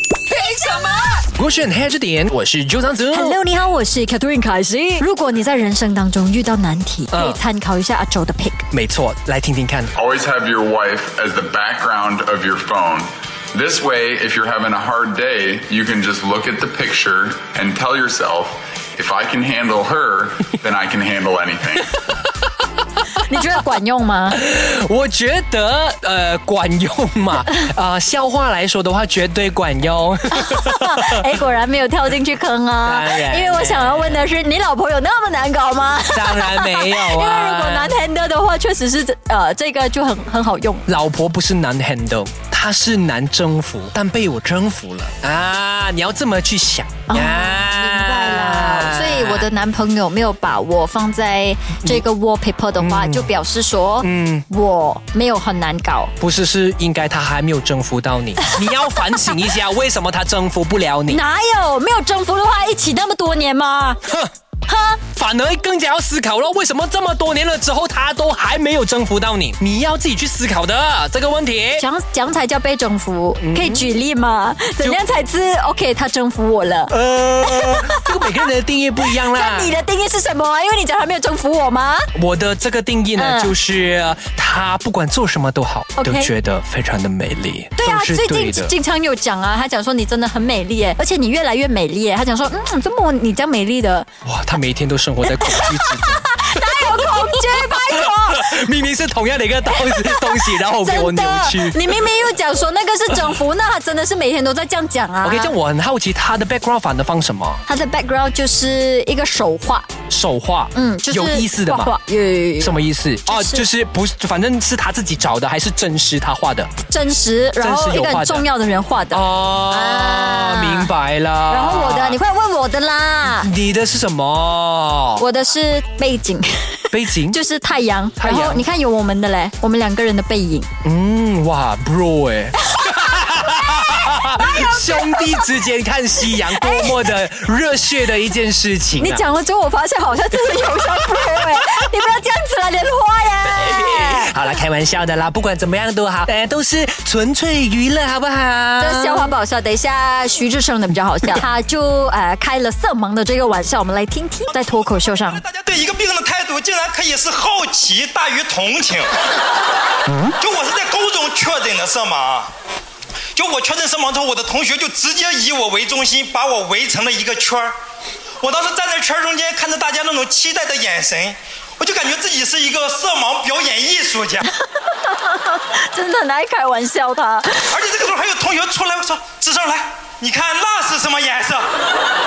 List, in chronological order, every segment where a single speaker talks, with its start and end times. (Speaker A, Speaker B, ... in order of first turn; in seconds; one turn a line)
Speaker A: 0.3-1.2
Speaker B: 1.3-3.4
Speaker A: 3.1-8.7
Speaker B: 7.1-7.4
Speaker B: 8.7-9.9
Speaker C: 9.9-22.0
Speaker A: 23.2-24.4
Speaker B: 24.3-31.2
Speaker A: 30.3-40.9
Speaker B: 32.8-34.2
Speaker B: 36.1-37.9
Speaker B: 40.9-49.5
Speaker A: 47.1-56.1
Speaker B: 52.8-53.3
Speaker B: 54.0-54.5
Speaker B: 56.2-61.2
Speaker A: 61.1-64.0
Speaker A: 64.7-65.0
Speaker B: 65.1-71.8
Speaker A: 71.8-76.9
Speaker B: 73.4-73.9
Speaker B: 76.9-79.7
Speaker A: 77.4-78.5
Speaker A: 79.0-82.1
Speaker B: 82.1-88.7
Speaker A: 83.2-83.5
Speaker A: 86.0-86.3
Speaker A: 87.8-94.1
Speaker B: 94.2-102.0
Speaker A: 95.2-98.6
Speaker A: 99.8-105.5
Speaker B: 105.2-107.6
Speaker A: 107.7-109.9
Speaker B: 110.1-111.9
Speaker A: 110.7-113.7
Speaker B: 112.6-116.7
Speaker A: 116.8-120.9
Speaker B: 117.6-118.4
Speaker B: 119.1-122.2
Speaker A: 121.5-123.5
Speaker B: 123.2-125.2
Speaker A: 125.2-130.7
Speaker B: 126.9-127.4
Speaker B: 128.2-128.6
Speaker B: 130.8-139.2
Speaker A: 132.7-135.5
Speaker A: 136.3-136.9
Speaker A: 139.0-144.3
Speaker B: 143.6-149.3
Speaker A: 148.8-155.4
Speaker D: 154.7-159.1
Speaker D: 160.4-162.5
Speaker D: 163.3-167.7
Speaker D: 168.4-174.5
Speaker A: 175.0-177.6
Speaker D: 177.6-181.7